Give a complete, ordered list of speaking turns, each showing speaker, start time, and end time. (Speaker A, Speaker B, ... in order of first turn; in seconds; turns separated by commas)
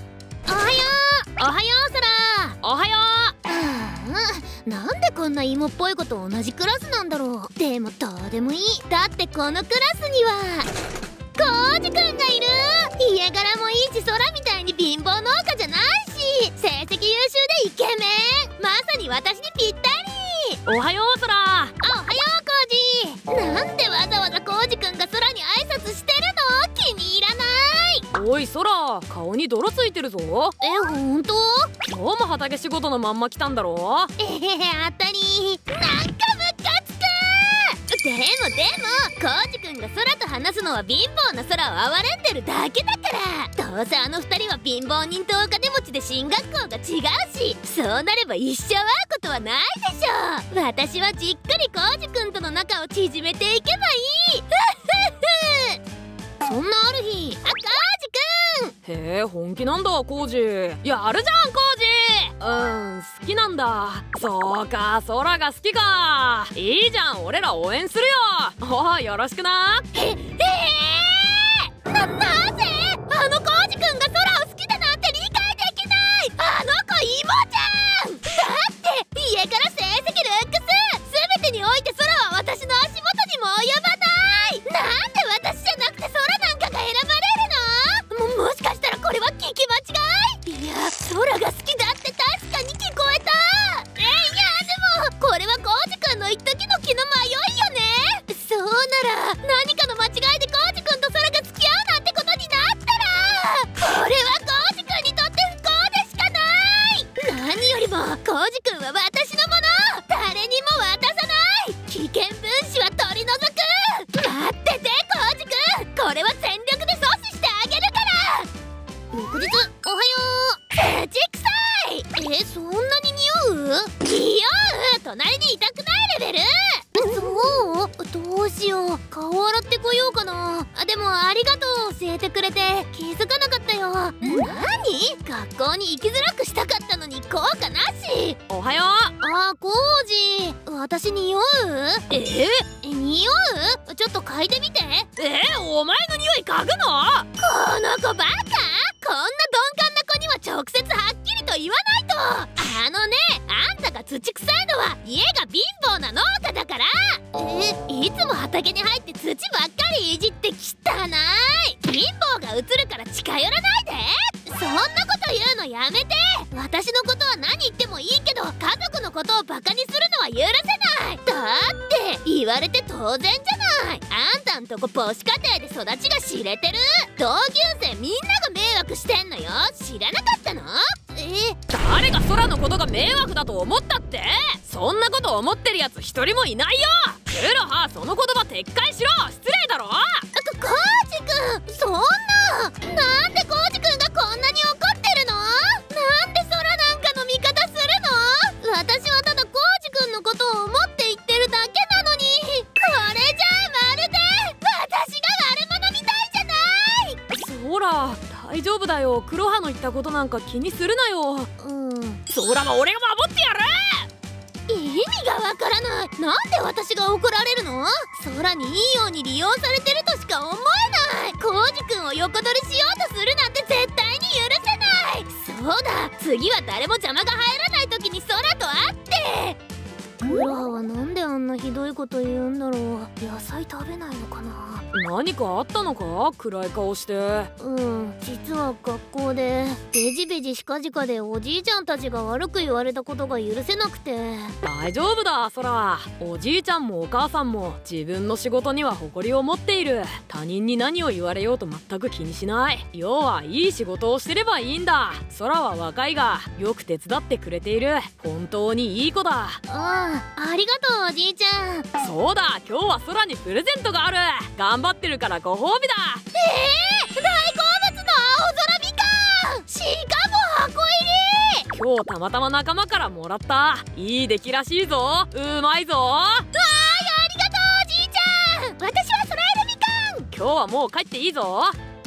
Speaker A: 0.5-2.6, Speaker B: 2.6-3.4, Speaker A: 3.5-10.7, Speaker A: 11.4-20.6, Speaker B: 20.7-21.7, Speaker A: 21.8-28.1, Speaker B: 28.1-30.6, Speaker A: 30.6-31.8, Speaker B: 31.9-34.1, Speaker A: 34.2-55.8, Speaker A: 56.4-58.8, Speaker B: 58.9-69.9, Speaker A: 69.9-118.5, Speaker A: 119.1-138.4, Speaker B: 138.5-139.2, Speaker A: 139.2-142.1, Speaker B: 142.1-142.7, Speaker A: 142.8-145.1, Speaker B: 145.2-147.3, Speaker A: 147.4-181.6, Speaker B: 181.7-190.2, Speaker A: 190.3-207.2, Speaker B: 207.3-211.5, Speaker A: 211.6-212.2, Speaker B: 212.3-214.1, Speaker A: 214.7-229.6, Speaker A: 230.2-234.8, Speaker B: 234.9-237.5, Speaker A: 237.6-244.6, Speaker B: 244.6-259.6, Speaker A: 259.7-261.9, Speaker B: 262.0-266.2, Speaker A: 266.3-271.7, Speaker B: 271.7-276.5, Speaker A: 276.5-280.3, Speaker B: 280.3-281.8